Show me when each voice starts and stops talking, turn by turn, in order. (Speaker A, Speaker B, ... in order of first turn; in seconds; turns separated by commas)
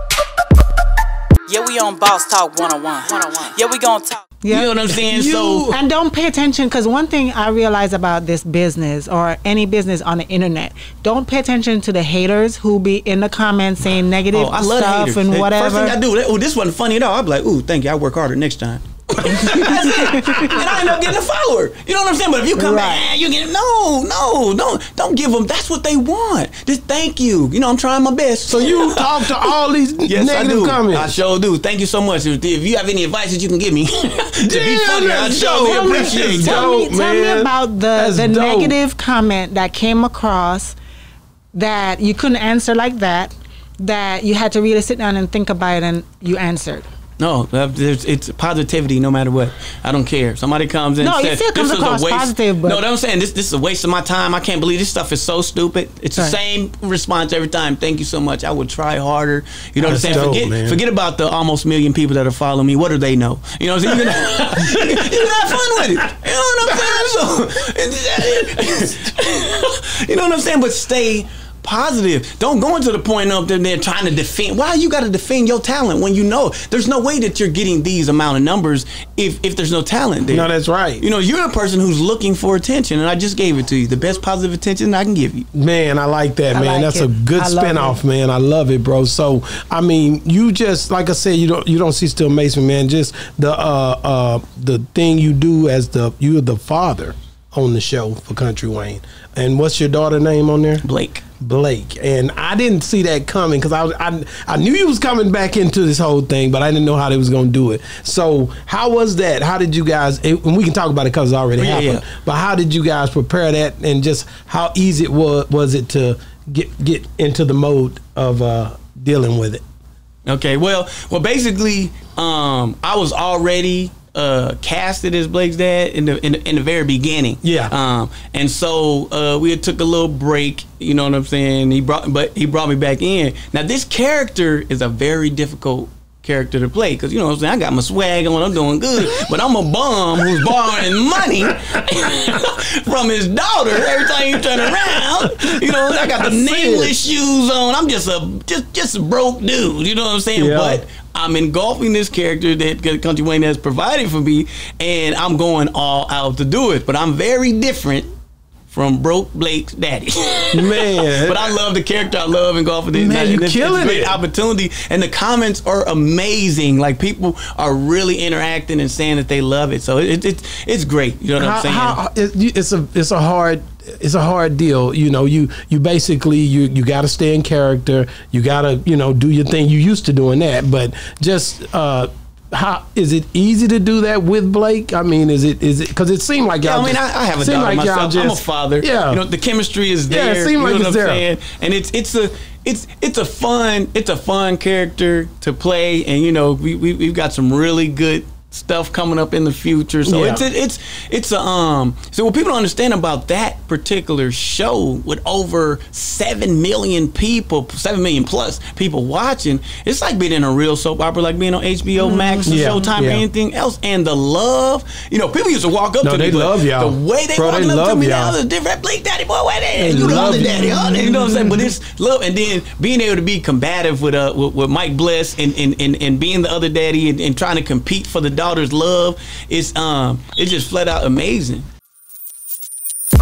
Speaker A: 1.5-4.3, Speaker B: 4.4-4.8, Speaker C: 4.5-5.7, Speaker D: 5.0-5.8, Speaker B: 5.6-15.9, Speaker C: 14.3-29.5, Speaker D: 19.2-20.6, Speaker B: 22.6-23.0, Speaker D: 28.4-31.2, Speaker C: 30.1-36.7, Speaker D: 34.5-38.8, Speaker B: 35.6-40.8, Speaker B: 41.5-46.9, Speaker C: 47.2-85.5, Speaker B: 51.0-52.8, Speaker D: 59.8-60.8, Speaker D: 64.1-64.8, Speaker D: 80.3-81.0, Speaker D: 85.5-100.8, Speaker B: 86.5-88.0, Speaker C: 100.8-101.2, Speaker D: 101.4-119.6, Speaker C: 111.6-112.0, Speaker C: 120.2-158.1, Speaker D: 127.4-127.7, Speaker D: 140.5-142.3, Speaker D: 144.9-146.9, Speaker D: 150.3-150.8, Speaker C: 158.7-172.0, Speaker D: 160.5-161.5, Speaker D: 162.9-164.2, Speaker D: 171.4-189.2, Speaker C: 186.6-231.7, Speaker D: 190.1-191.2, Speaker D: 200.0-200.4, Speaker B: 212.1-212.4, Speaker D: 212.4-213.2, Speaker D: 216.0-218.4, Speaker D: 219.8-221.2